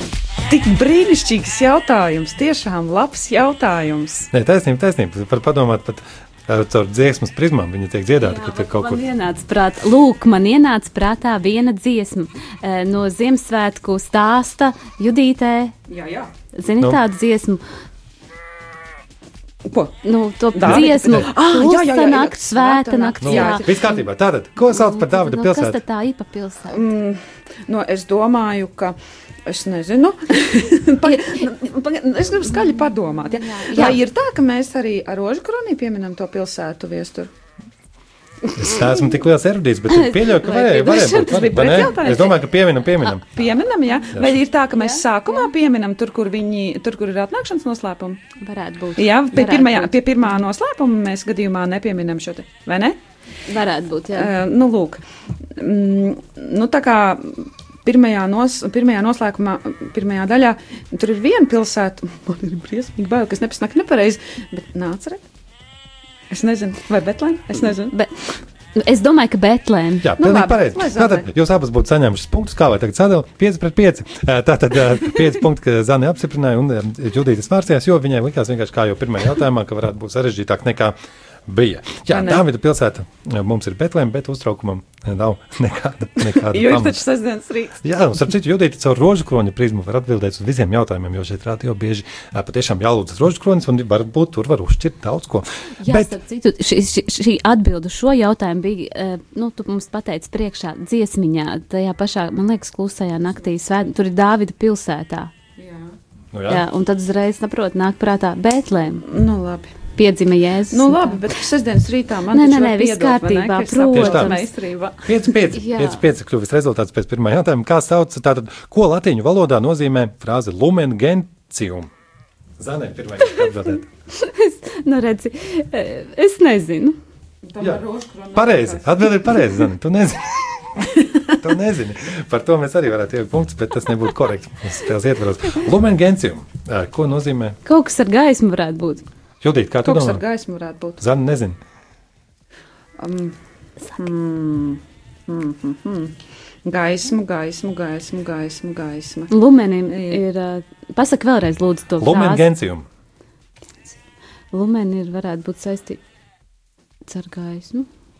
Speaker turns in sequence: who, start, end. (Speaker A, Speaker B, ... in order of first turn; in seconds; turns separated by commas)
Speaker A: 0.5-4.3, Speaker B: 4.3-9.0, Speaker C: 8.2-15.7, Speaker A: 15.9-16.3, Speaker C: 16.5-17.6, Speaker A: 19.6-19.9, Speaker C: 20.0-23.9, Speaker A: 20.5-23.9, Speaker B: 20.6-21.3, Speaker B: 23.2-25.8, Speaker C: 24.7-26.8, Speaker A: 26.7-37.3, Speaker C: 31.0-31.4, Speaker C: 32.6-34.0, Speaker B: 38.5-43.2, Speaker C: 39.9-41.9, Speaker A: 40.8-42.4, Speaker A: 43.3-48.2, Speaker C: 44.7-45.4, Speaker C: 48.4-49.9, Speaker A: 49.0-53.0, Speaker C: 53.5-54.3, Speaker A: 54.1-55.0, Speaker A: 55.6-65.2, Speaker A: 66.3-67.9, Speaker C: 67.9-68.1, Speaker C: 68.7-70.1, Speaker B: 70.0-80.9, Speaker A: 70.2-71.2, Speaker B: 81.5-87.0, Speaker A: 82.1-82.4, Speaker A: 86.2-87.8, Speaker B: 87.8-96.2, Speaker C: 95.8-105.3, Speaker A: 105.6-105.9, Speaker B: 106.3-106.7, Speaker C: 106.5-109.0, Speaker A: 109.0-109.7, Speaker C: 109.9-111.2, Speaker A: 110.7-115.1, Speaker C: 112.3-114.5, Speaker B: 113.9-114.3, Speaker B: 115.0-121.9, Speaker C: 115.5-116.0, Speaker B: 122.6-123.9, Speaker C: 124.1-126.9, Speaker A: 127.5-129.4, Speaker B: 128.3-130.7, Speaker B: 131.4-137.6, Speaker C: 137.6-139.0, Speaker B: 139.4-140.2, Speaker A: 139.8-141.0, Speaker B: 141.0-141.6, Speaker A: 143.0-143.3, Speaker A: 143.9-149.3, Speaker C: 149.3-152.5, Speaker A: 149.9-150.2, Speaker B: 152.0-152.8, Speaker C: 154.5-156.0, Speaker C: 157.1-157.9